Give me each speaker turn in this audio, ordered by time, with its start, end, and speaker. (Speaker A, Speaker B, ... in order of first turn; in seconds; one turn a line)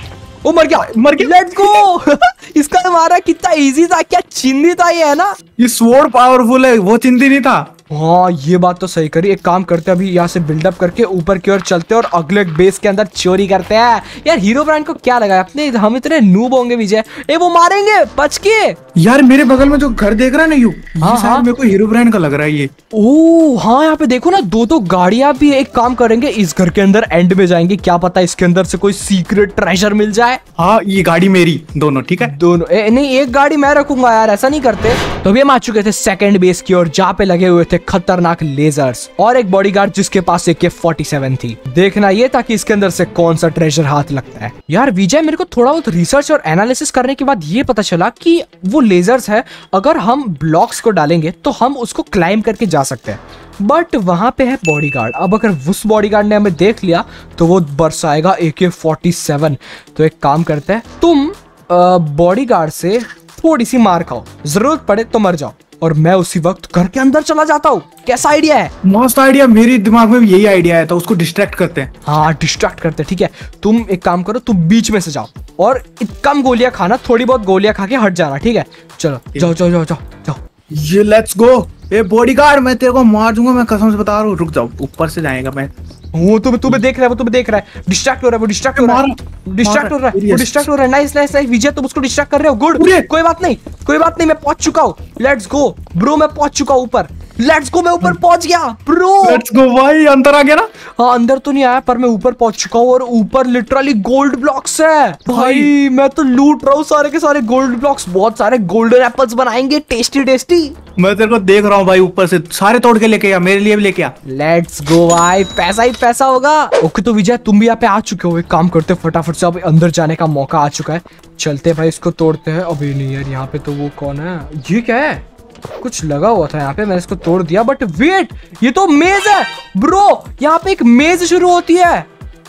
Speaker A: 0.4-5.4
Speaker B: 0.7-1.9
Speaker B: 5.6-7.7
Speaker A: 7.9-18.8
Speaker B: 19.0-22.7
Speaker A: 21.0-21.5
Speaker A: 22.9-30.4
Speaker B: 30.6-32.4
Speaker A: 32.2-68.7
Speaker B: 68.8-71.9
Speaker A: 72.0-80.4
Speaker B: 80.7-85.7
Speaker A: 86.1-99.4
Speaker B: 88.8-90.7
Speaker B: 92.8-93.1
Speaker B: 99.2-100.7
Speaker A: 101.0-110.8
Speaker B: 105.3-105.7
Speaker B: 111.0-114.2
Speaker A: 114.2-125.2
Speaker A: 125.8-132.1